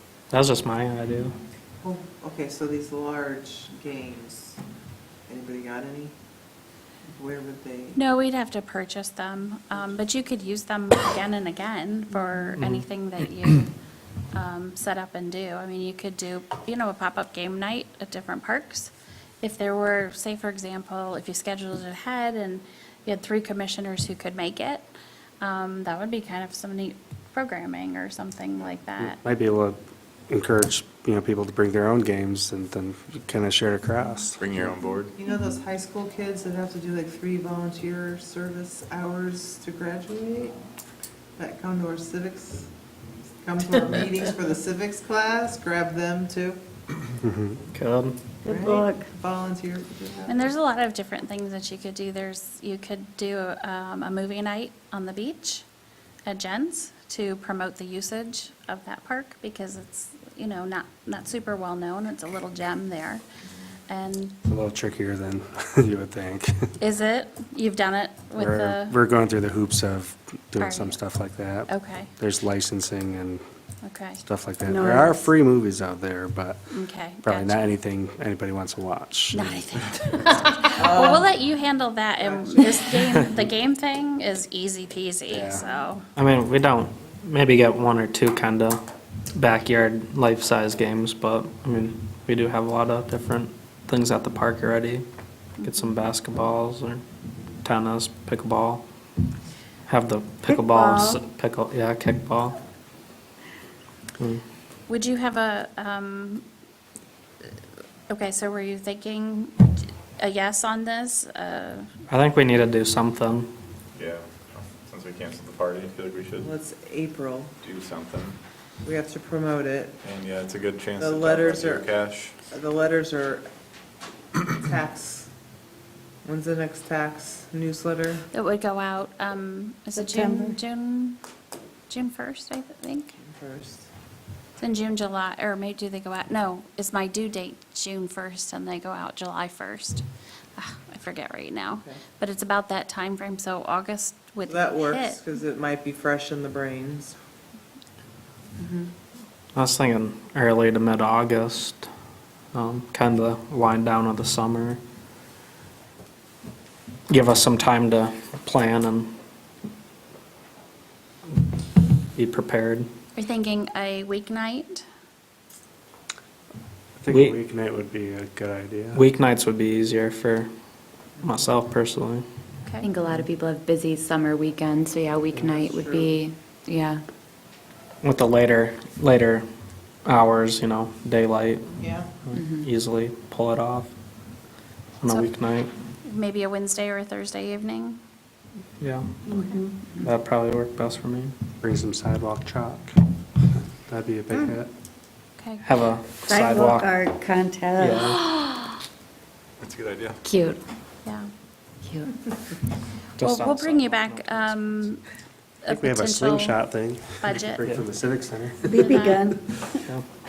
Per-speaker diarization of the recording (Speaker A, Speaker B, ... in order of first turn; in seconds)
Speaker A: 0.3-1.4, 12.6-12.8, 47.7-48.1, 86.2-88.8, 89.3-95.0, 95.6-97.0, 97.6-98.8, 99.9-102.6, 112.1-113.5, 149.5-151.8, 152.5-154.8, 157.1-159.1, 162.1-162.9, 167.1-167.4, 168.9-170.5, 171.2-172.2, 178.0-179.4, 180.0-181.7, 182.2-183.9, 185.0-185.7, 188.8-189.1, 190.0-191.3, 195.6-197.0, 197.8-198.2, 203.2-204.9
Speaker B: 1.8-4.6, 5.3-6.1, 7.1-8.0, 35.1-40.5, 41.4-42.7, 43.4-46.6, 48.4-50.4, 80.8-81.3, 82.2-82.7, 116.4-117.5, 118.8-120.0, 121.0-121.9, 122.4-123.5, 124.5-125.3, 126.2-128.2, 133.1-133.9, 144.5-147.2, 175.3-176.2, 181.7-182.1
Speaker C: 7.9-13.7, 14.3-29.2, 50.3-55.6, 56.2-63.2, 63.9-64.4, 66.8-69.0, 70.6-71.0, 71.7-72.1, 73.8-74.2, 76.7-77.5, 79.3-86.0, 95.6-95.9, 104.9-106.4, 108.1-111.9, 128.3-131.2, 131.9-133.1, 134.6-140.0, 140.6-145.2, 163.2-164.8, 172.6-172.9, 185.1-185.3, 186.0-188.0, 189.3-189.6, 195.4-195.6, 201.0-201.3, 203.2-205.0, 205.6-206.7, 207.2-207.6, 208.8-209.3
Speaker D: 29.0-34.5, 47.2-47.6, 64.5-66.7, 68.3-73.4, 74.2-76.7, 77.2-79.8, 85.3-85.6, 167.0-169.0, 191.6-192.9, 193.9-194.7, 205.7-209.0
Speaker E: 34.4-35.1, 113.9-116.5, 117.6-118.4, 120.0-122.4, 199.6-200.2
Speaker F: 48.5-49.1, 74.6-75.3, 100.5-101.2, 130.0-130.5, 189.3-189.7, 196.3-198.1, 208.7-209.6
Speaker G: 172.8-177.0, 182.3-182.7, 198.3-198.6, 200.2-200.6, 201.8-202.1